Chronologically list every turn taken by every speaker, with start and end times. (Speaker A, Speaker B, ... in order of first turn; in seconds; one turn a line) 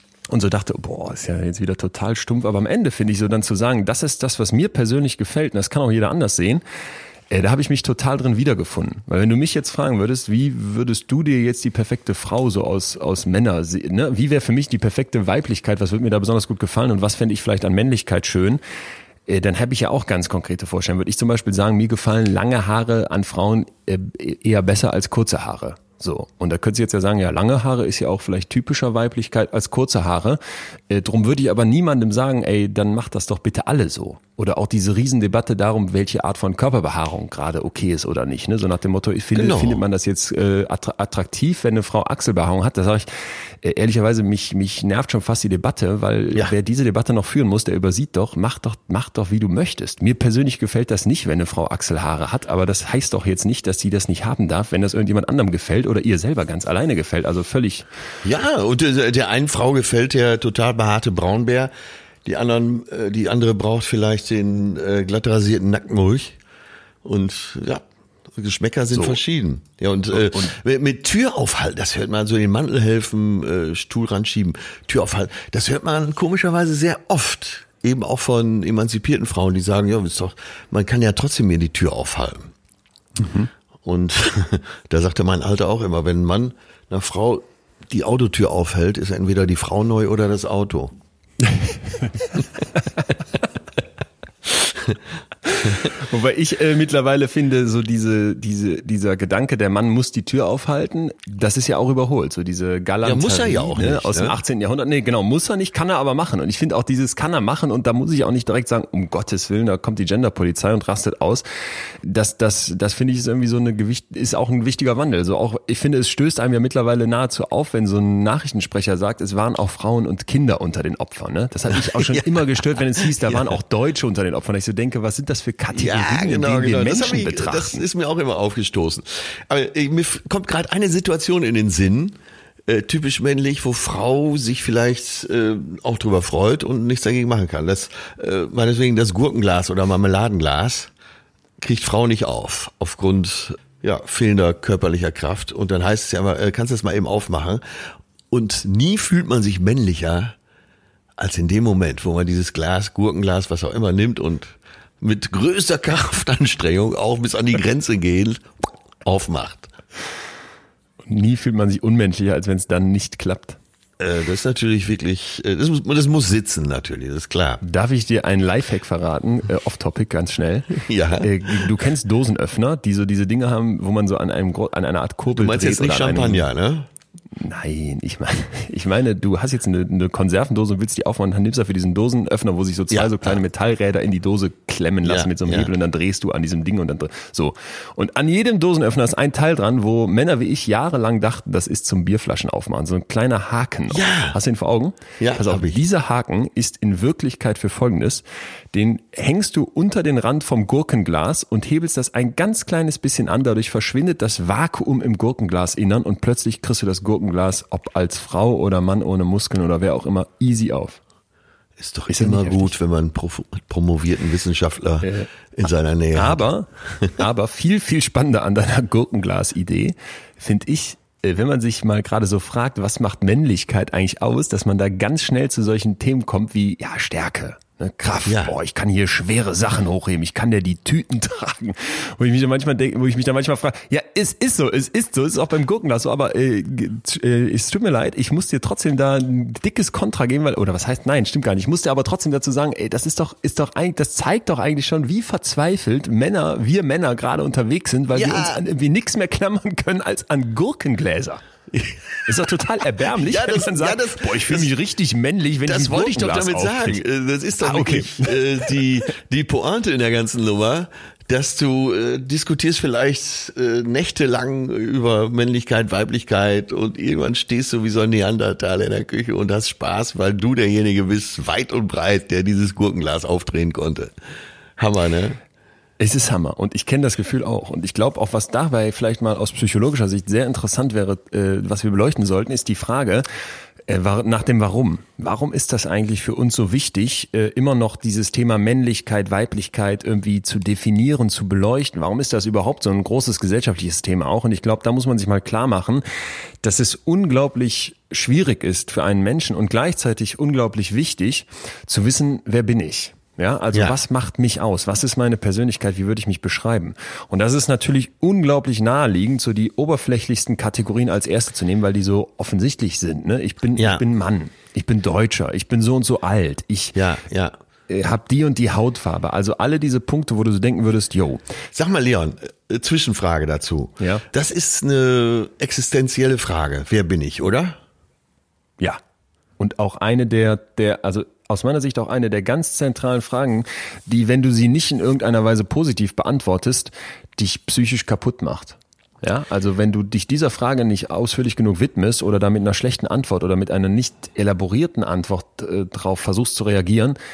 Speaker A: 0.3-6.6
Speaker A: 7.3-18.6
Speaker A: 19.3-57.9
Speaker B: 39.4-39.8
Speaker B: 58.2-61.7
Speaker B: 62.2-66.4
Speaker B: 67.0-82.5
Speaker A: 68.9-69.2
Speaker A: 70.1-70.5
Speaker A: 83.2-83.5
Speaker B: 83.8-90.9
Speaker A: 91.5-92.3
Speaker A: 95.5-111.5
Speaker B: 103.0-104.4
Speaker A: 112.0-127.8
Speaker B: 121.7-123.6
Speaker B: 125.8-140.9
Speaker B: 141.6-150.4
Speaker B: 151.2-159.7
Speaker A: 161.1-163.6
Speaker B: 164.0-167.6
Speaker A: 167.6-176.5
Speaker B: 170.7-171.7
Speaker B: 175.3-176.9
Speaker A: 177.3-211.0
Speaker B: 182.9-183.4
Speaker B: 185.0-185.7
Speaker B: 193.9-194.4
Speaker B: 195.2-195.8
Speaker B: 211.8-216.4
Speaker A: 212.1-212.7
Speaker A: 215.0-215.3
Speaker A: 216.1-251.4
Speaker B: 228.3-228.5
Speaker B: 248.1-248.6
Speaker B: 251.7-254.7
Speaker A: 252.3-257.0
Speaker B: 255.7-274.1
Speaker A: 257.6-258.8
Speaker B: 274.8-275.4
Speaker A: 276.0-283.2
Speaker A: 283.9-296.0
Speaker A: 296.6-317.0
Speaker B: 313.8-314.0
Speaker B: 316.9-317.6
Speaker A: 317.9-321.4
Speaker B: 321.7-327.8
Speaker A: 324.0-324.2
Speaker A: 329.6-347.2